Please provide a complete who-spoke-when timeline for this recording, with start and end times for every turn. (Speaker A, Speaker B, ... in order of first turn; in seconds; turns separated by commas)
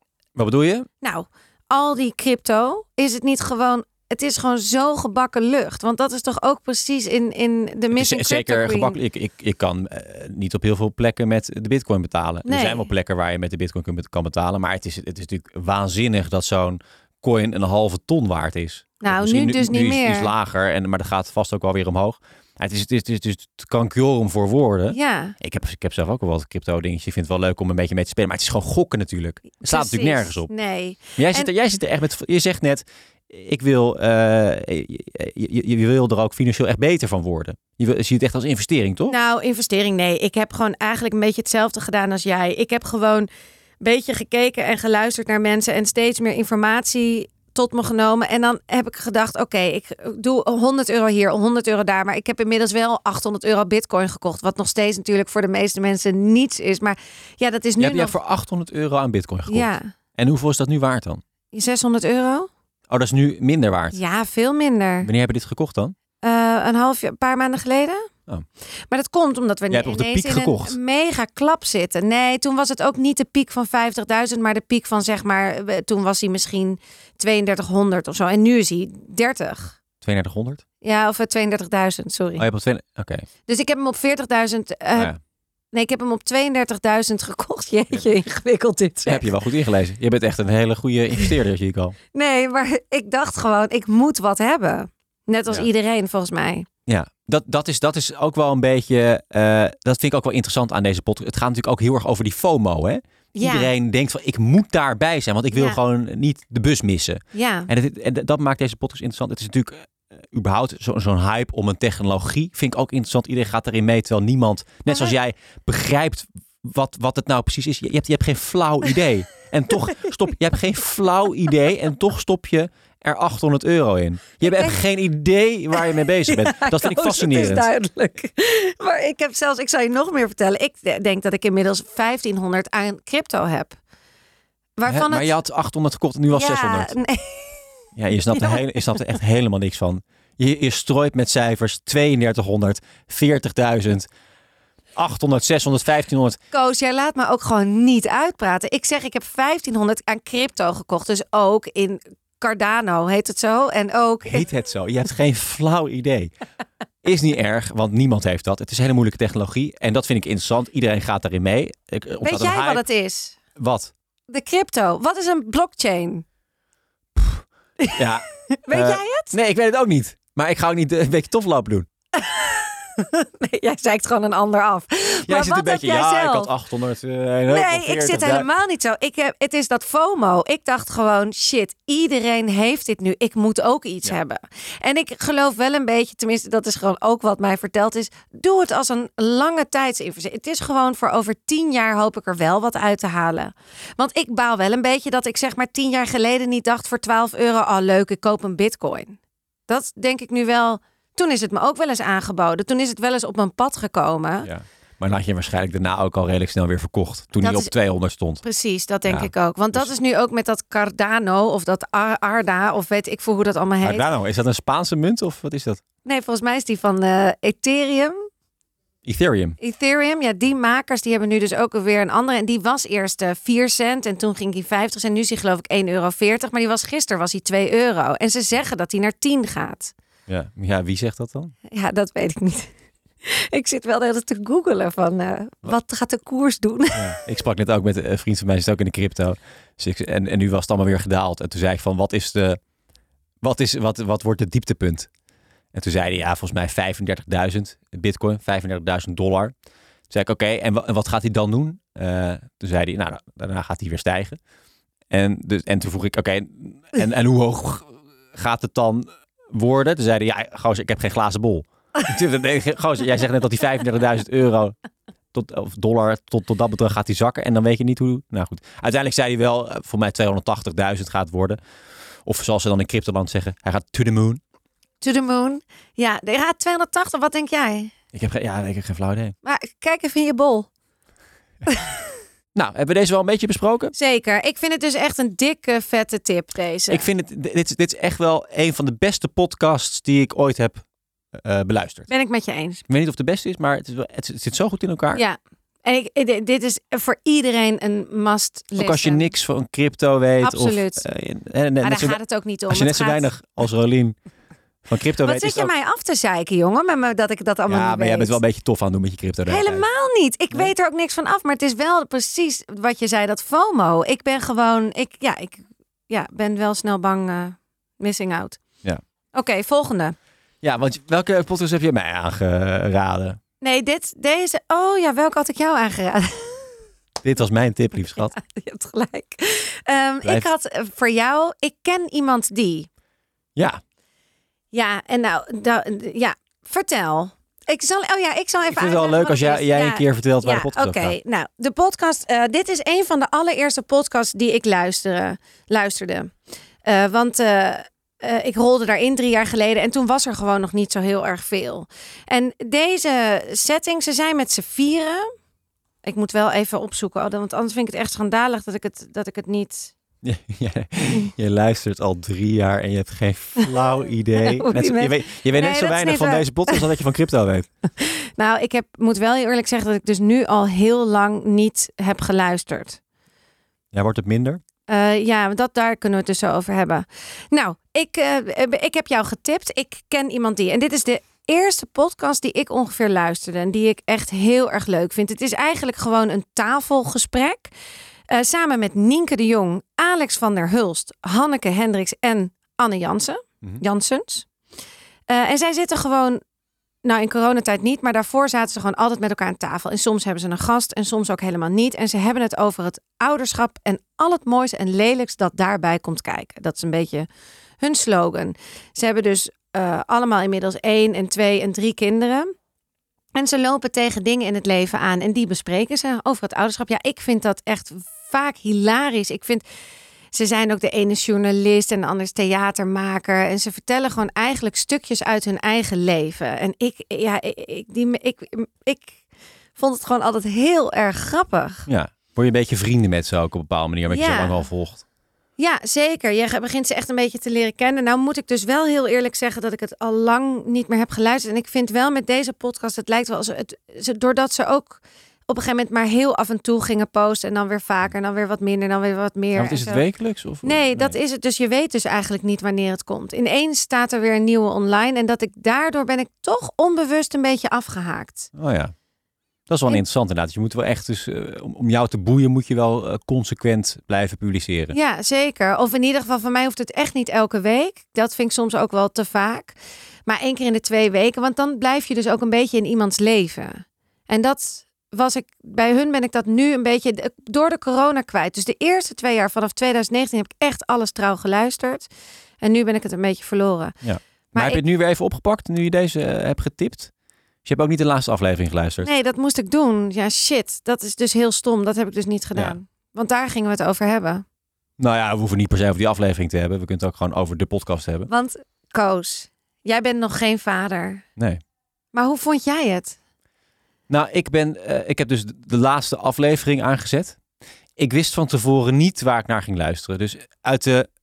Speaker A: 0.4-0.9, Speaker B: 1.0-9.0, Speaker A: 7.9-30.5, Speaker B: 12.4-12.9, Speaker B: 19.0-20.3, Speaker B: 24.9-25.4, Speaker B: 29.6-31.5, Speaker A: 31.2-39.1, Speaker B: 39.1-43.3, Speaker B: 43.8-58.2, Speaker A: 57.8-61.2, Speaker B: 59.5-59.9, Speaker B: 61.5-62.5, Speaker A: 62.9-64.0, Speaker B: 63.9-65.1, Speaker A: 65.0-66.0, Speaker B: 66.2-68.1, Speaker B: 68.9-79.8, Speaker A: 69.7-70.8, Speaker A: 80.0-80.6, Speaker B: 80.8-82.5, Speaker A: 82.4-83.2, Speaker B: 83.5-85.1, Speaker B: 85.7-89.3, Speaker A: 89.0-92.0, Speaker B: 92.1-96.7, Speaker A: 96.9-127.7, Speaker B: 103.3-103.7, Speaker B: 105.5-105.8, Speaker B: 107.3-107.7, Speaker B: 114.9-115.2, Speaker B: 124.5-124.8, Speaker B: 125.8-133.8, Speaker B: 134.8-135.3, Speaker A: 134.9-136.9, Speaker B: 136.3-137.7, Speaker A: 138.0-144.1, Speaker B: 138.3-138.6, Speaker A: 145.0-146.4, Speaker B: 146.5-154.5, Speaker A: 154.3-156.3, Speaker A: 157.0-162.8, Speaker B: 162.2-163.4, Speaker A: 163.6-163.9, Speaker B: 164.3-166.2, Speaker A: 167.2-167.4, Speaker B: 167.8-169.3, Speaker A: 167.9-171.9, Speaker B: 172.2-176.5, Speaker A: 175.3-178.5, Speaker B: 177.5-204.5, Speaker A: 204.4-208.4, Speaker B: 207.4-207.7, Speaker B: 208.4-214.1, Speaker A: 209.1-209.9, Speaker A: 213.8-215.8, Speaker B: 216.1-218.3, Speaker A: 219.1-219.6, Speaker B: 219.6-229.9, Speaker A: 230.3-231.5, Speaker B: 231.7-232.7, Speaker B: 233.2-237.2, Speaker A: 236.9-242.6, Speaker A: 243.4-245.1, Speaker A: 245.7-249.5, Speaker A: 250.1-254.4, Speaker A: 255.1-264.8, Speaker A: 265.3-271.6, Speaker A: 272.2-274.4, Speaker B: 275.0-277.9, Speaker A: 278.1-279.3, Speaker B: 279.4-280.7, Speaker B: 281.7-281.9, Speaker A: 282.6-283.9, Speaker B: 283.9-287.1, Speaker A: 286.9-290.8, Speaker A: 291.4-292.1, Speaker B: 292.1-292.8, Speaker A: 292.9-295.2, Speaker B: 295.1-299.3, Speaker A: 298.8-304.2, Speaker B: 300.4-301.0, Speaker B: 301.8-303.3, Speaker A: 304.9-305.7, Speaker B: 305.2-308.4, Speaker A: 307.7-309.9, Speaker B: 309.5-318.6, Speaker B: 319.4-320.1, Speaker A: 320.6-323.4, Speaker B: 323.6-326.7, Speaker A: 327.2-328.4, Speaker B: 328.2-332.9, Speaker A: 333.6-333.8, Speaker B: 334.7-355.3, Speaker A: 338.7-341.2, Speaker B: 356.0-359.9, Speaker A: 360.2-367.7, Speaker B: 364.4-366.9, Speaker B: 368.0-373.0, Speaker A: 373.9-374.6, Speaker B: 374.9-387.7, Speaker B: 388.3-394.5, Speaker B: 395.3-396.4, Speaker B: 397.0-407.3, Speaker B: 407.8-412.5, Speaker B: 413.4-419.6, Speaker B: 420.3-429.2, Speaker B: 429.8-431.9, Speaker A: 431.9-435.0, Speaker B: 434.1-434.6, Speaker B: 435.6-450.0, Speaker A: 449.6-451.2, Speaker B: 450.6-458.5, Speaker A: 458.6-458.9, Speaker A: 459.7-465.0, Speaker B: 464.9-482.1, Speaker B: 482.6-484.0, Speaker A: 484.0-487.1, Speaker B: 484.5-484.8, Speaker A: 487.6-489.1, Speaker B: 489.0-494.4, Speaker A: 495.0-498.3, Speaker B: 498.3-501.2, Speaker B: 502.1-503.2, Speaker A: 504.1-507.4, Speaker A: 508.0-511.1